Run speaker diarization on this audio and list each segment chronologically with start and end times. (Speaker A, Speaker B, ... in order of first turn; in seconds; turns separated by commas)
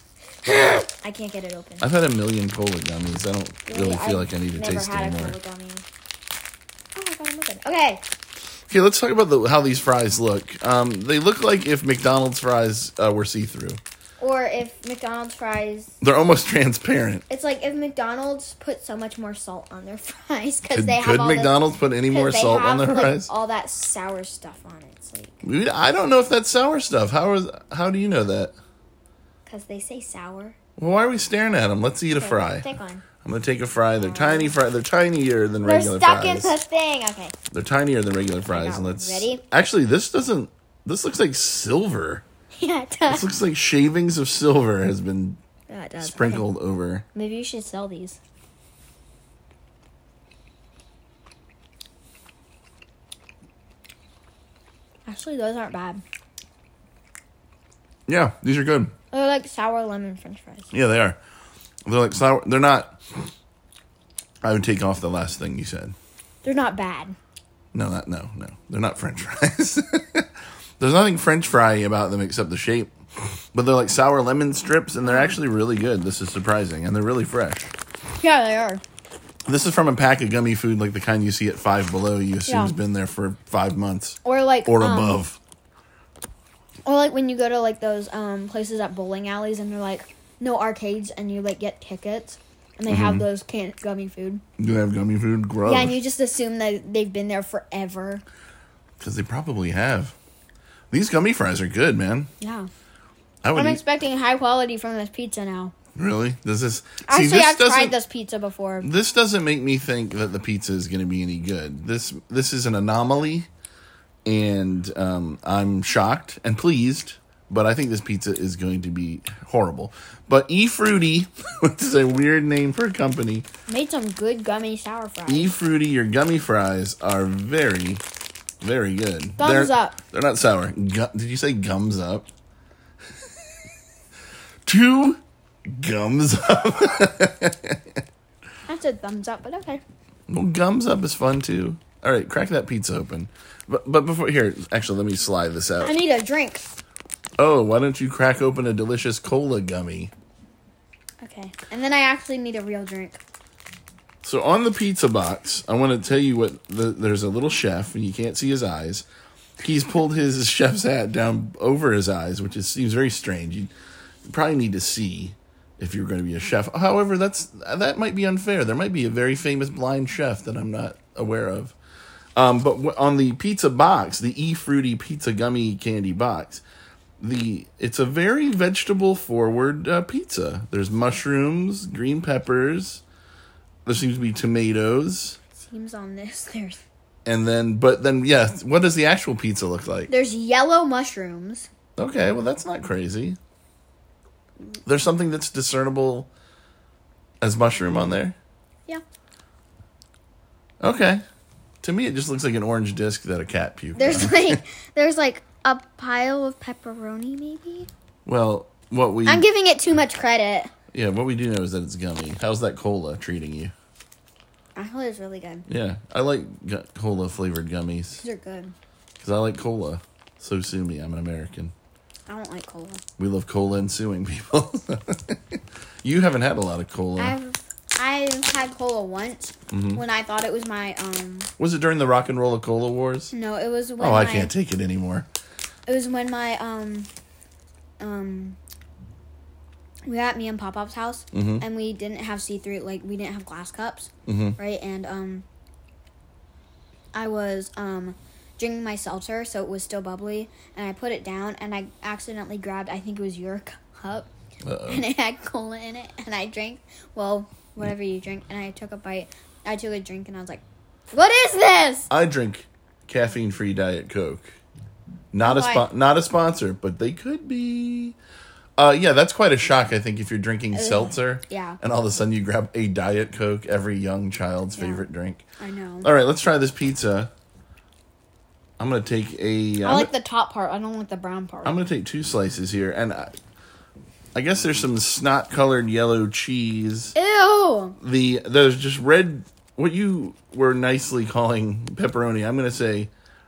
Speaker A: 0.4-1.9, Speaker B: 1.8-5.4, Speaker A: 3.7-5.8, Speaker A: 7.0-8.1, Speaker B: 8.7-13.8, Speaker A: 14.2-15.9, Speaker B: 16.0-17.2, Speaker A: 17.3-25.4, Speaker B: 20.7-23.3, Speaker B: 25.4-28.5, Speaker A: 29.5-30.6, Speaker B: 30.8-32.7, Speaker A: 32.1-33.0, Speaker B: 33.2-36.5, Speaker A: 34.0-34.5, Speaker A: 35.6-37.3, Speaker B: 37.5-42.2, Speaker A: 38.5-39.4, Speaker A: 42.6-43.3, Speaker B: 43.1-45.4, Speaker A: 45.7-46.5, Speaker B: 46.0-47.0, Speaker A: 47.1-48.2, Speaker A: 55.1-56.0, Speaker B: 58.1-58.9, Speaker A: 59.1-60.7, Speaker B: 60.7-61.2, Speaker B: 61.9-63.0, Speaker B: 64.4-66.0, Speaker A: 66.4-67.2, Speaker B: 67.7-70.3, Speaker B: 70.8-72.9, Speaker B: 73.5-77.7, Speaker A: 75.0-75.4, Speaker A: 78.2-78.8, Speaker B: 79.5-85.4, Speaker A: 82.5-82.7, Speaker A: 84.2-85.2, Speaker A: 86.8-94.4, Speaker B: 92.9-93.3, Speaker B: 94.6-96.0, Speaker A: 95.7-98.2, Speaker B: 99.0-100.1, Speaker B: 100.9-102.3, Speaker A: 102.4-102.7, Speaker B: 103.4-103.8, Speaker A: 103.5-105.7, Speaker B: 106.0-108.0, Speaker A: 107.1-108.9, Speaker B: 108.8-113.5, Speaker B: 114.3-123.5, Speaker A: 123.7-125.5, Speaker B: 125.3-128.0, Speaker B: 128.6-132.3, Speaker A: 129.4-130.0, Speaker B: 134.7-137.8, Speaker A: 138.7-139.8, Speaker B: 140.3-145.9, Speaker A: 145.8-146.7, Speaker B: 147.4-150.1, Speaker A: 151.2-153.2, Speaker B: 154.2-159.1, Speaker B: 159.6-163.7, Speaker B: 164.2-171.8, Speaker B: 172.4-176.6, Speaker B: 177.2-183.0, Speaker B: 183.9-185.4, Speaker A: 185.6-186.8, Speaker B: 187.3-190.1, Speaker A: 190.1-191.7, Speaker B: 192.0-193.4, Speaker B: 194.9-196.3, Speaker B: 197.4-198.4, Speaker B: 200.8-201.2, Speaker B: 201.8-204.6, Speaker A: 203.9-207.9, Speaker B: 208.3-209.4, Speaker A: 209.2-210.7, Speaker B: 210.9-213.7, Speaker A: 214.8-215.7, Speaker B: 215.7-218.2, Speaker A: 218.2-218.8, Speaker B: 219.2-221.7, Speaker A: 222.3-223.0, Speaker B: 223.2-227.4, Speaker A: 227.2-231.5, Speaker B: 229.7-230.0, Speaker B: 231.6-233.3, Speaker A: 233.3-234.5, Speaker B: 234.0-235.3, Speaker A: 235.9-237.1, Speaker A: 238.0-238.6, Speaker A: 240.1-245.4, Speaker B: 241.3-241.7, Speaker B: 244.3-244.6, Speaker A: 247.1-254.3, Speaker B: 254.6-255.1, Speaker A: 254.9-262.1, Speaker B: 262.1-264.5, Speaker B: 265.3-268.1, Speaker A: 265.4-265.9, Speaker B: 268.8-275.4, Speaker A: 270.7-271.8, Speaker A: 274.8-275.1, Speaker A: 275.6-276.1, Speaker B: 276.0-277.3, Speaker B: 278.8-280.1, Speaker A: 279.8-281.8, Speaker B: 281.6-283.3, Speaker B: 284.4-287.1, Speaker A: 287.1-288.0, Speaker B: 288.0-293.1